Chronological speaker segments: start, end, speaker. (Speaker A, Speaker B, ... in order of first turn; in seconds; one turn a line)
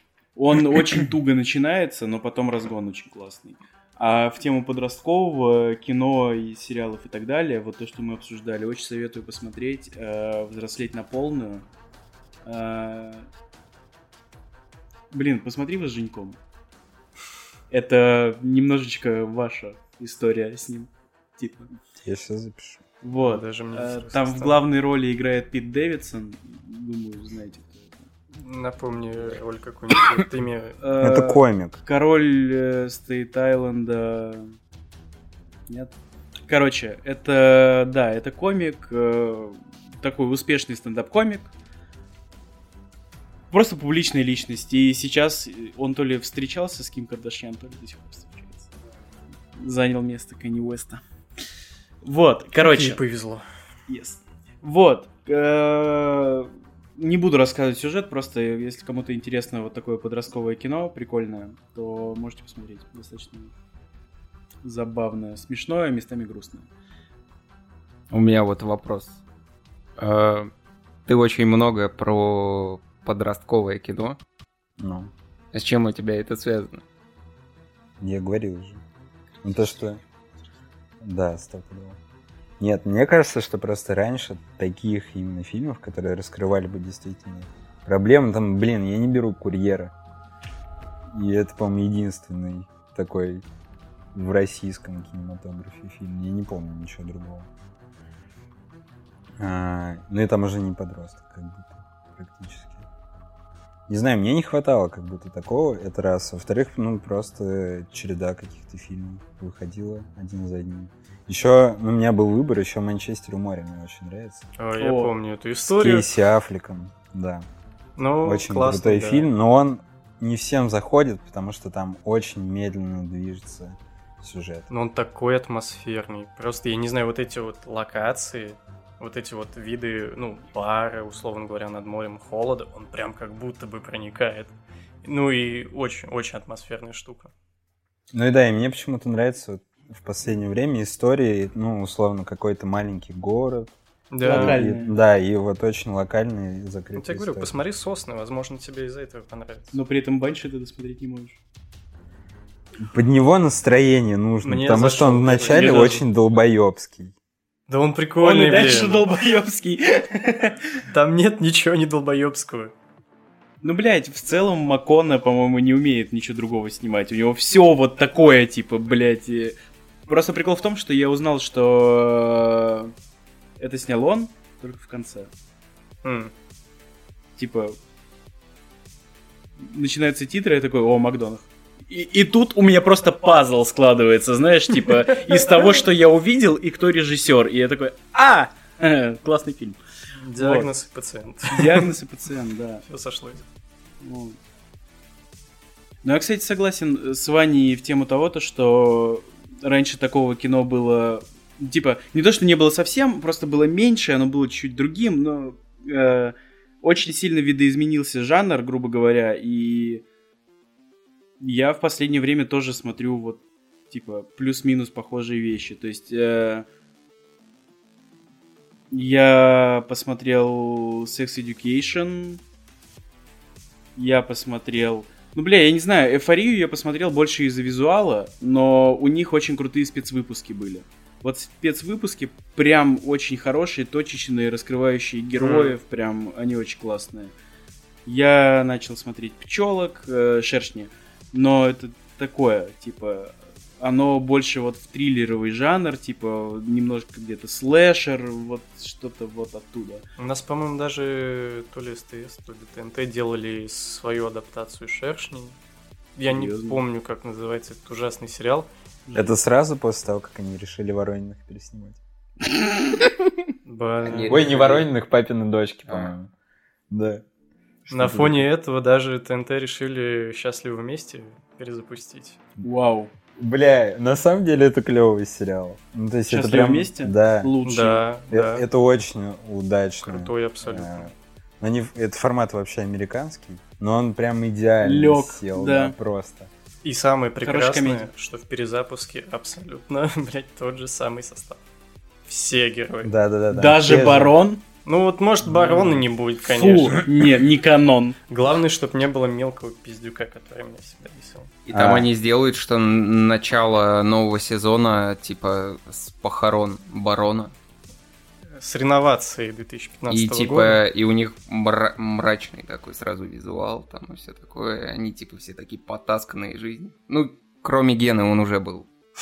Speaker A: 0.4-11.7
Speaker A: 12.4-13.3
Speaker A: 15.1-16.4
Speaker A: 17.7-21.7
Speaker B: 22.0-22.8
Speaker A: 23.0-28.0
Speaker C: 23.1-24.6
Speaker C: 28.3-30.8
Speaker A: 30.8-34.5
Speaker B: 31.0-31.8
Speaker A: 35.7-36.0
Speaker A: 36.5-41.5
Speaker A: 43.5-48.7
Speaker A: 49.5-51.0
Speaker A: 52.0-53.0
Speaker C: 52.6-53.5
Speaker A: 53.9-63.5
Speaker A: 64.6-66.7
Speaker D: 68.1-69.2
Speaker D: 70.0-70.5
Speaker D: 71.1-74.2
Speaker B: 74.8-75.1
Speaker D: 75.5-76.8
Speaker B: 78.0-78.8
Speaker A: 79.4-80.0
Speaker B: 79.4-80.0
Speaker B: 81.0-82.0
Speaker B: 82.6-89.9
Speaker B: 91.1-93.5
Speaker B: 94.1-97.5
Speaker B: 99.4-102.9
Speaker B: 103.9-114.5
Speaker C: 114.6-116.1
Speaker A: 114.8-115.1
Speaker B: 115.8-117.5
Speaker C: 118.0-119.3
Speaker B: 118.2-124.7
Speaker C: 124.7-137.3
Speaker B: 138.1-143.8
Speaker C: 144.1-144.7
Speaker A: 144.2-144.9
Speaker B: 144.3-147.6
Speaker C: 146.9-149.8
Speaker A: 149.7-151.4
Speaker B: 152.8-157.1
Speaker C: 154.4-156.1
Speaker C: 157.7-159.1
Speaker A: 158.2-160.6
Speaker C: 160.9-162.7
Speaker A: 163.6-169.6
Speaker A: 170.1-172.9
Speaker A: 173.6-175.3
Speaker C: 176.0-176.3
Speaker A: 177.4-177.8
Speaker A: 179.6-189.8
Speaker C: 190.2-191.9
Speaker A: 190.4-190.7
Speaker A: 191.5-192.8
Speaker C: 192.9-193.4
Speaker A: 194.0-194.4
Speaker A: 196.0-210.0
Speaker A: 211.4-216.7
Speaker A: 218.9-222.4
Speaker A: 224.0-237.3
Speaker C: 235.4-235.8
Speaker A: 238.1-250.1
Speaker C: 250.2-255.6
Speaker C: 256.2-258.7
Speaker A: 256.3-256.8
Speaker A: 259.1-259.4
Speaker B: 259.1-262.0
Speaker C: 263.6-264.7
Speaker D: 264.0-264.9
Speaker B: 264.3-266.3
Speaker D: 265.9-266.1
Speaker B: 266.9-267.2
Speaker B: 267.9-268.4
Speaker C: 267.9-272.4
Speaker A: 272.6-273.1
Speaker B: 273.4-277.5
Speaker A: 276.3-278.1
Speaker C: 277.6-278.6
Speaker B: 278.3-286.5
Speaker C: 280.0-281.1
Speaker A: 284.8-285.9
Speaker C: 286.8-291.6
Speaker A: 287.4-288.1
Speaker C: 292.3-293.1
Speaker B: 293.0-294.4
Speaker A: 293.5-294.6
Speaker C: 294.9-297.0
Speaker A: 295.5-298.2
Speaker C: 298.3-301.5
Speaker D: 301.7-307.6
Speaker B: 301.7-302.1
Speaker C: 308.5-310.8
Speaker D: 310.1-318.9